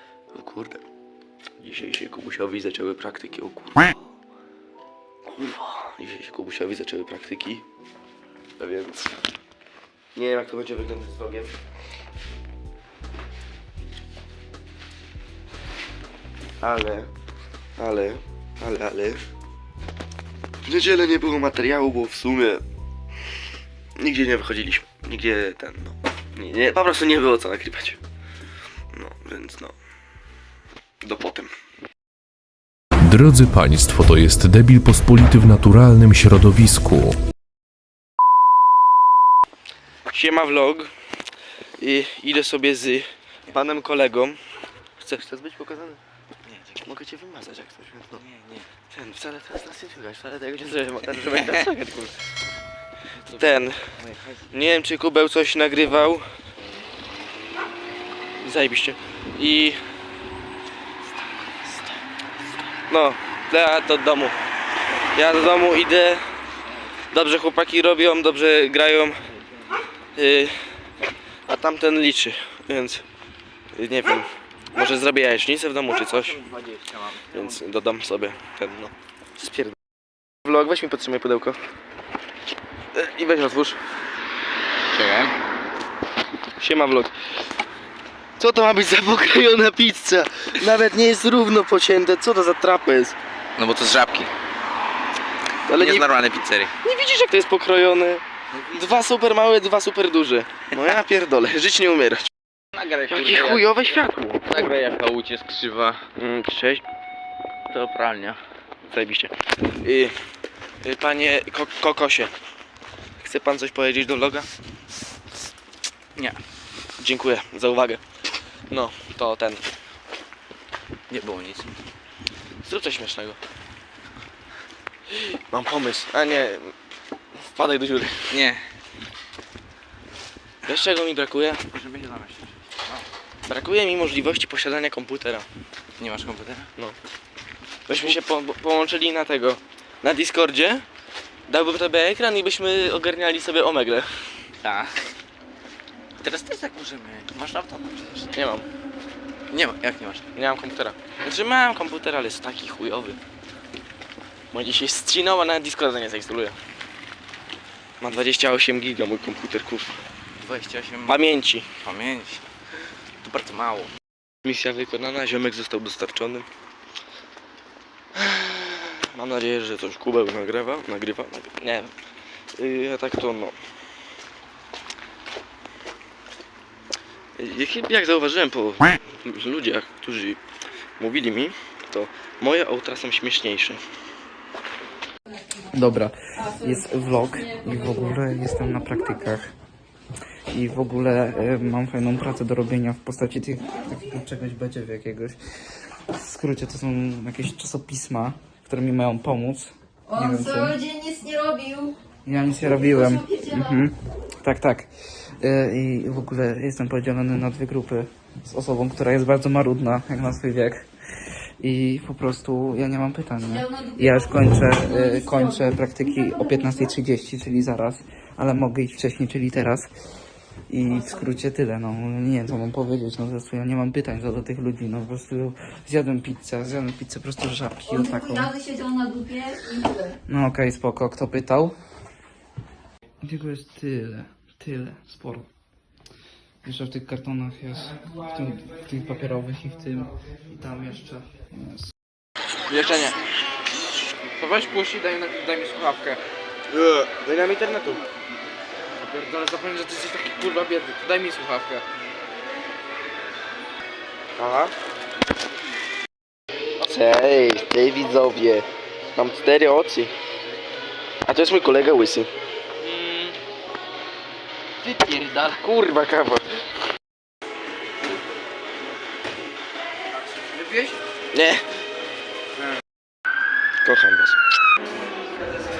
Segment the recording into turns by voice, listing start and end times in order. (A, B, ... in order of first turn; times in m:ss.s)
0:00.3-0:00.8 A
0:01.6-0:03.9 A
0:05.3-0:07.6 A
0:08.6-0:09.2 A
0:10.1-0:11.5 A
0:16.6-0:17.1 A
0:17.8-0:19.2 A
0:20.6-0:22.6 A
0:24.0-0:28.0 A
0:28.9-0:29.8 A
0:31.0-0:31.5 A
0:33.0-0:37.2 B
0:40.1-0:40.9 A
0:41.8-0:44.4 A
0:45.0-0:46.0 A
0:46.5-0:46.8 C
0:46.8-0:48.2 A
0:48.2-0:48.6 C
0:48.9-0:52.2 A
0:53.2-0:54.4 C
0:53.3-0:53.9 A
0:54.5-0:56.3 A
0:58.4-0:59.8 A
1:02.8-1:04.3 A
1:05.1-1:06.2 A
1:07.1-1:09.2 A
1:10.1-1:10.6 A
1:11.5-1:13.0 A
1:13.7-1:16.4 A
1:16.1-1:17.6 C
1:17.3-1:19.7 A
1:20.4-1:21.6 A
1:22.9-1:23.8 A
1:24.9-1:25.3 C
1:26.6-1:27.1 A
1:28.4-1:33.2 A
1:33.6-1:34.3 C
1:35.7-1:36.1 A
1:35.7-1:36.7 C
1:36.8-1:42.3 A
1:42.7-1:43.7 C
1:43.1-1:44.5 A
1:44.5-1:46.0 C
1:46.2-1:46.8 A
1:47.7-1:48.4 C
1:48.9-1:50.2 A
1:50.8-1:52.3 A
1:53.2-1:54.5 A
1:57.0-1:58.0 A
1:58.7-1:59.6 A
2:01.1-2:01.7 C
2:02.6-2:03.4 A
2:05.5-2:06.7 A
2:07.5-2:08.4 A
2:08.3-2:08.6 C
2:10.6-2:11.6 A
2:11.7-2:13.0 C
2:13.5-2:15.5 A
2:16.0-2:16.7 C
2:17.9-2:20.8 A
2:21.5-2:24.1 A
2:24.6-2:24.9 C
2:26.2-2:28.2 C
2:28.3-2:28.7 A
2:29.5-2:30.2 C
2:30.3-2:33.2 A
2:34.5-2:36.6 A
2:38.0-2:39.9 A
2:40.4-2:42.4 C
2:41.0-2:41.7 A
2:43.2-2:43.9 C
2:44.4-2:46.5 A
2:48.1-2:51.9 A
2:52.6-2:53.5 A
2:57.4-3:00.4 A
3:01.0-3:03.8 A
3:05.7-3:09.5 D
3:10.5-3:20.8 D
3:20.1-3:22.0 E
3:22.2-3:24.9 D
3:25.4-3:30.8 D
3:31.6-3:39.9 D
3:40.7-3:48.5 D
3:48.0-3:50.2 E
3:50.3-3:51.8 D
3:53.2-3:55.5 D
3:56.6-4:01.9 D
4:02.8-4:03.1 A
4:06.7-4:08.0 A
4:10.7-4:11.0 C
4:14.4-4:14.7 A
4:16.8-4:20.1 A
4:21.2-4:22.3 A
4:25.4-4:26.4 A
4:31.3-4:31.6 A
4:33.8-4:34.4 A